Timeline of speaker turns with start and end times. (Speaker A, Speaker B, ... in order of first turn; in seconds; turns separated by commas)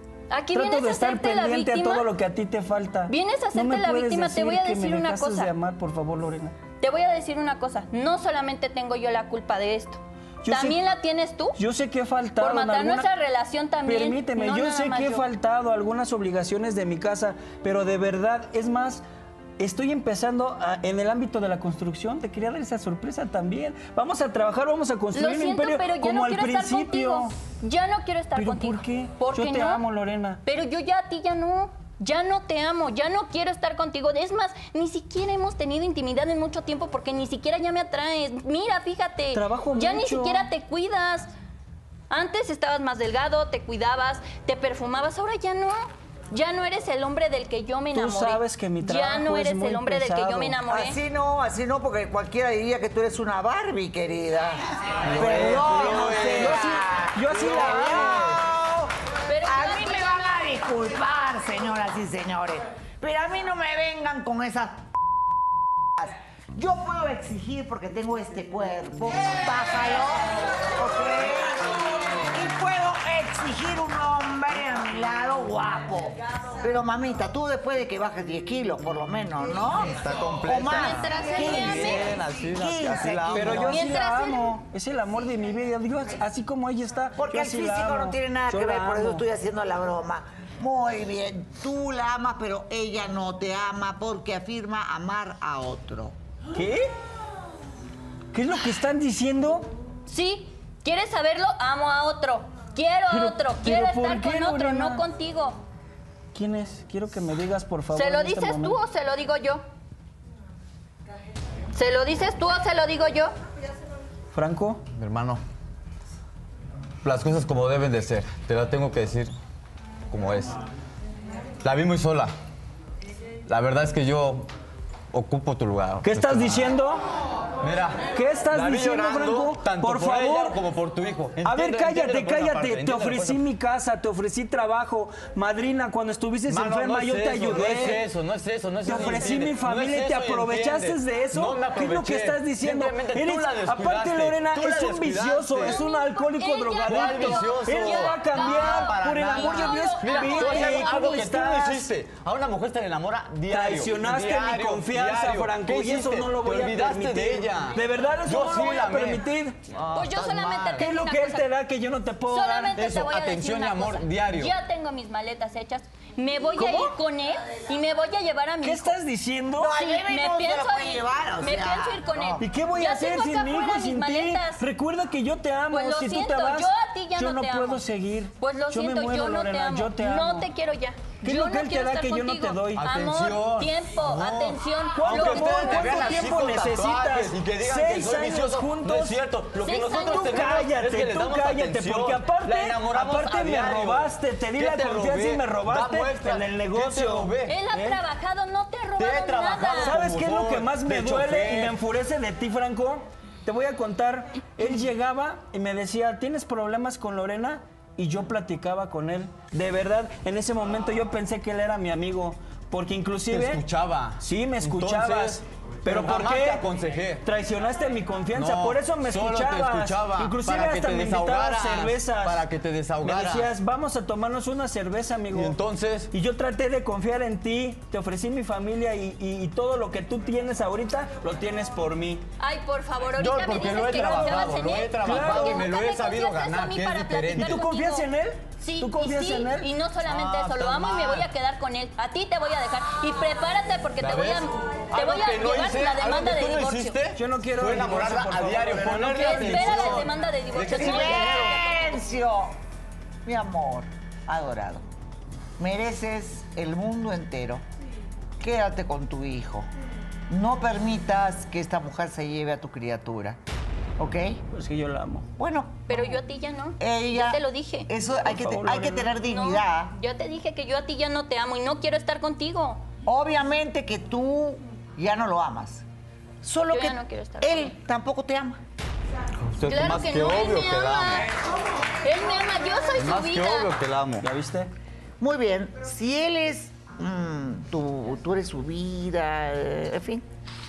Speaker A: 0.3-2.0, Speaker B: 0.5-6.5, Speaker A: 3.1-5.5, Speaker A: 6.8-11.6, Speaker B: 10.4-10.8, Speaker B: 11.6-13.1, Speaker A: 12.4-15.3, Speaker B: 13.8-19.0, Speaker B: 19.6-27.3, Speaker A: 25.1-29.8, Speaker B: 28.3-30.4, Speaker A: 30.4-41.3, Speaker B: 39.3-40.5, Speaker A: 42.1-51.0, Speaker B: 47.9-50.6, Speaker C: 50.7-58.9, Speaker D: 55.0-56.7, Speaker B: 55.1-58.3, Speaker D: 57.6-58.3, Speaker A: 59.3-60.3, Speaker C: 59.4-64.9, Speaker C: 66.0-71.7, Speaker C: 72.3-83.8, Speaker D: 80.0-83.8, Speaker A: 80.6-82.1, Speaker B: 83.3-89.2, Speaker A: 83.6-84.5, Speaker C: 87.2-96.1, Speaker B: 96.5-96.9, Speaker B: 98.3-99.7, Speaker A: 100.1-105.6, Speaker B: 103.1-105.0, Speaker B: 106.3-108.8, Speaker A: 107.9-109.6, Speaker A: 111.7-113.3, Speaker B: 114.3-114.8, Speaker D: 114.9-115.4, Speaker D: 117.0-119.3, Speaker D: 120.1-120.6, Speaker D: 121.6-122.3, Speaker D: 123.5-124.5, Speaker D: 125.1-126.7, Speaker B: 126.0-127.0, Speaker D: 127.6-133.4, Speaker B: 128.1-130.6, Speaker B: 131.4-138.1, Speaker D: 136.5-145.8, Speaker B: 138.8-151.8, Speaker A: 145.6-151.1, Speaker D: 146.9-160.9, Speaker B: 153.5-159.6, Speaker A: 159.9-161.5, Speaker B: 160.8-162.8, Speaker A: 162.3-169.0, Speaker D: 162.8-164.5, Speaker B: 166.6-166.9, Speaker B: 168.6-169.7, Speaker C: 169.6-172.4, Speaker A: 169.8-174.6, Speaker B: 172.4-180.5, Speaker A: 175.7-177.8, Speaker A: 178.4-186.2, Speaker B: 181.2-182.8, Speaker D: 182.8-197.6, Speaker B: 184.9-189.2, Speaker A: 189.6-190.6, Speaker B: 190.0-198.0, Speaker A: 197.5-199.9, Speaker D: 199.0-201.8, Speaker B: 199.8-213.6, Speaker D: 213.3-217.2, Speaker B: 214.2-216.7, Speaker B: 217.2-222.4, Speaker D: 218.3-223.5, Speaker B: 223.0-225.6, Speaker D: 225.3-226.1, Speaker B: 226.1-232.2, Speaker A: 232.4-238.1, Speaker D: 233.2-237.7, Speaker B: 235.0-235.7, Speaker B: 237.3-239.7, Speaker A: 238.6-247.0, Speaker D: 240.1-241.3, Speaker D: 244.0-251.5, Speaker B: 247.2-250.1, Speaker A: 249.1-251.7, Speaker C: 250.6-252.5, Speaker C: 253.2-254.8, Speaker C: 255.6-257.6, Speaker C: 258.4-259.7, Speaker C: 260.3-263.4, Speaker C: 264.0-264.4, Speaker B: 264.5-265.3, Speaker C: 265.4-266.1, Speaker A: 265.9-267.9, Speaker C: 266.8-269.9, Speaker B: 268.2-269.1, Speaker A: 269.2-272.8, Speaker C: 273.1-275.8, Speaker C: 276.4-278.6, Speaker A: 276.7-277.7, Speaker D: 279.4-281.3, Speaker A: 279.7-281.3, Speaker A: 282.0-283.7, Speaker D: 282.9-284.3, Speaker B: 284.2-284.7, Speaker C: 285.2-290.2